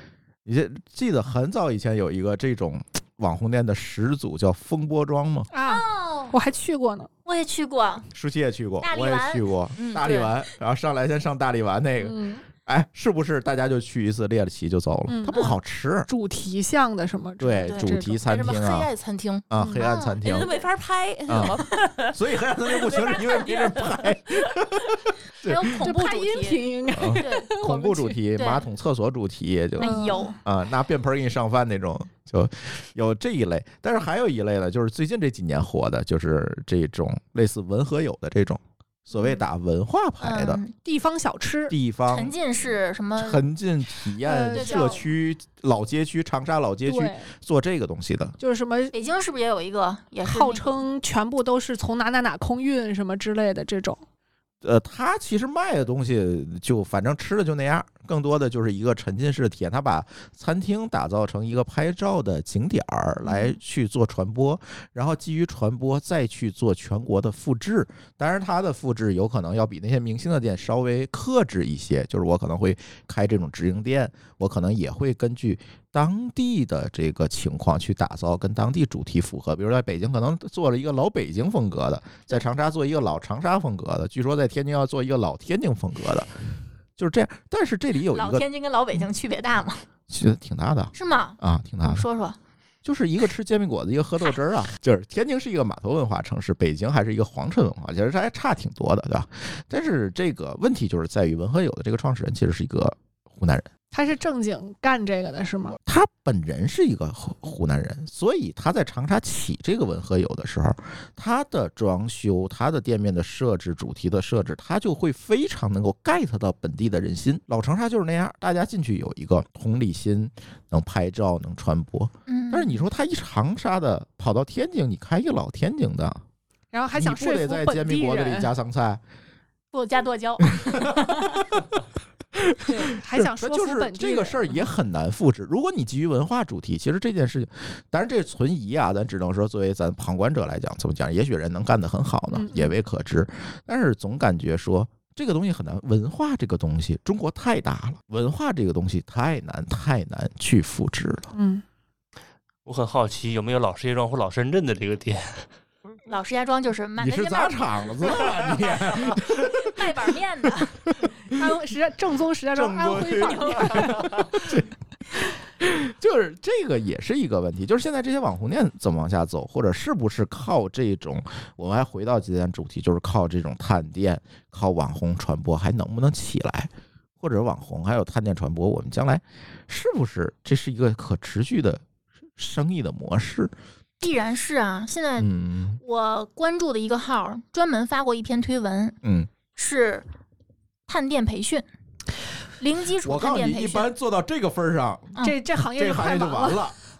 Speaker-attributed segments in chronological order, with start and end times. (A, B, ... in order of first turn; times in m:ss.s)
0:00.4-0:05.5 A
0:05.5-0:07.1 B
0:05.6-0:06.4 C
0:07.2-0:08.1 C
0:08.1-0:16.1 A
0:08.8-0:09.4 C
0:09.8-0:10.3 D
0:12.0-0:12.4 B
0:15.1-0:15.5 B
0:16.1-0:18.3 B
0:17.4-0:18.9 A
0:18.2-0:19.4 D
0:19.5-0:20.5 A
0:19.6-0:19.8 B
0:19.8-0:20.5 C
0:20.2-0:24.5 D
0:21.3-0:25.7 A
0:25.4-0:26.6 C
0:25.8-0:28.2 B
0:26.9-0:40.6 A
0:27.2-0:27.5 C
0:28.3-0:28.7 C
0:29.8-0:30.4 C
0:29.8-0:30.4 B
0:40.2-0:40.7 C
0:40.8-0:41.7 B
0:41.7-0:42.3 A
0:42.1-0:43.4 C
0:43.2-0:48.4 A
0:44.2-0:45.0 B
0:44.5-0:45.0 C
0:46.8-0:47.3 B
0:48.4-0:48.9 B
0:48.9-0:50.8 C
0:50.2-0:54.0 B
0:54.6-1:26.3 A
1:27.0-1:28.4 A
1:28.1-1:29.8 C
1:30.1-1:32.0 A
1:30.9-1:32.4 C
1:32.8-1:43.7 A
1:43.9-1:45.8 B
1:45.8-2:06.2 A
2:02.3-2:02.8 C
2:06.7-2:08.5 B
2:07.0-2:09.0 A
2:09.7-2:11.3 C
2:10.6-2:11.0 A
2:12.4-2:31.3 A
2:12.6-2:14.7 B
2:22.3-2:22.7 B
2:31.3-2:31.6 B
2:32.6-2:35.4 E
2:36.0-2:40.8 C
2:37.0-2:40.1 A
2:40.8-2:41.3 A
2:41.3-2:44.3 B
2:42.5-2:44.7 A
2:45.6-3:01.8 A
3:02.4-3:03.5 A
3:04.0-3:09.0 C
3:05.2-3:05.8 A
3:09.0-3:09.3 A
3:09.6-3:10.0 C
3:10.9-3:11.6 C
3:12.6-3:13.9 C
3:13.0-3:15.2 A
3:15.2-3:16.7 B
3:15.8-3:16.8 A